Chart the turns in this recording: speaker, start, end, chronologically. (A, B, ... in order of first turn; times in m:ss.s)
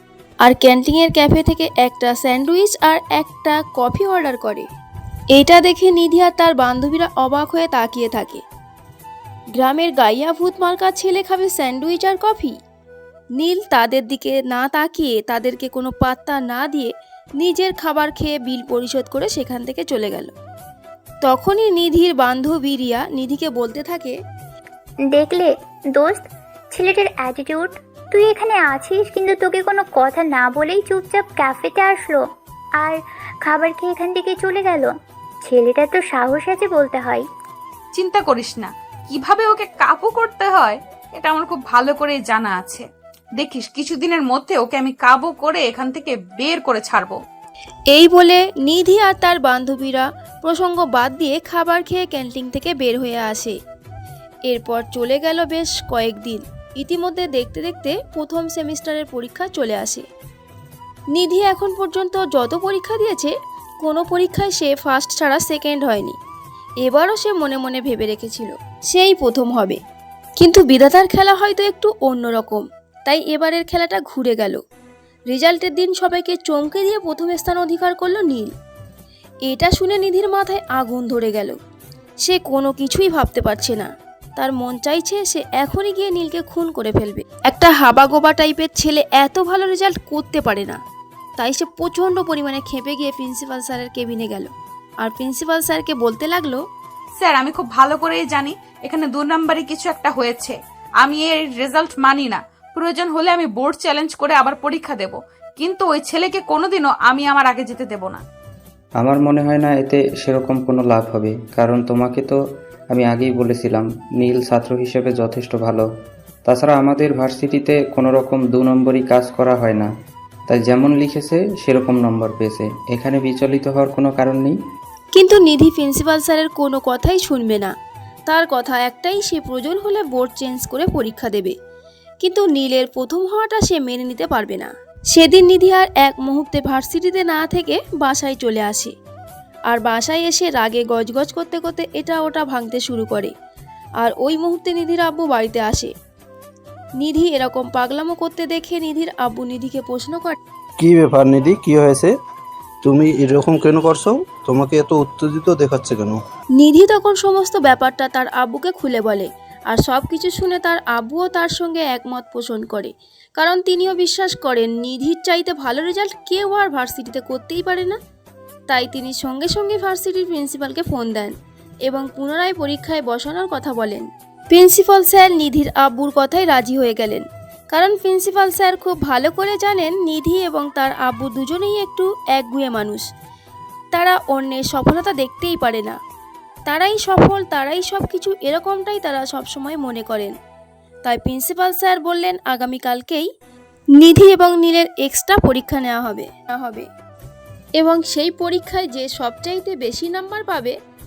0:00.4-0:04.7 A
0:05.3-0:08.4 A
0:09.6-0:12.6 A
0:13.4-0:20.3 A
0:21.2-0:24.2 A
0:25.1-0:32.2 B
0:32.8-0:37.2 B
0:37.9-0:42.8 C
0:43.4-0:47.2 C
0:47.9-0:53.5 A
0:54.5-1:00.0 A
1:01.1-1:06.2 A
1:06.8-1:09.8 A
1:10.4-1:14.6 A
1:15.3-1:18.5 A
1:19.5-1:21.6 A
1:22.2-1:30.8 A
1:31.4-1:34.5 A
1:35.0-1:36.6 A
1:37.2-1:48.2 C
1:49.0-1:52.4 D
1:52.9-1:55.8 D
1:56.4-1:59.9 D
2:00.5-2:04.5 D
2:05.1-2:07.7 A
2:08.3-2:11.5 A
2:12.2-2:18.9 A
2:19.7-2:23.3 A
2:24.0-2:25.9 A
2:27.0-2:30.4 A
2:30.8-2:32.1 E
2:32.8-2:36.2 E
2:36.6-2:48.0 A
2:48.7-2:51.3 A
2:51.8-3:03.0 A
3:03.9-3:06.0 A
3:06.7-3:10.3 A
3:11.0-3:13.3 A
3:14.0-3:16.9 A
3:17.8-3:20.7 A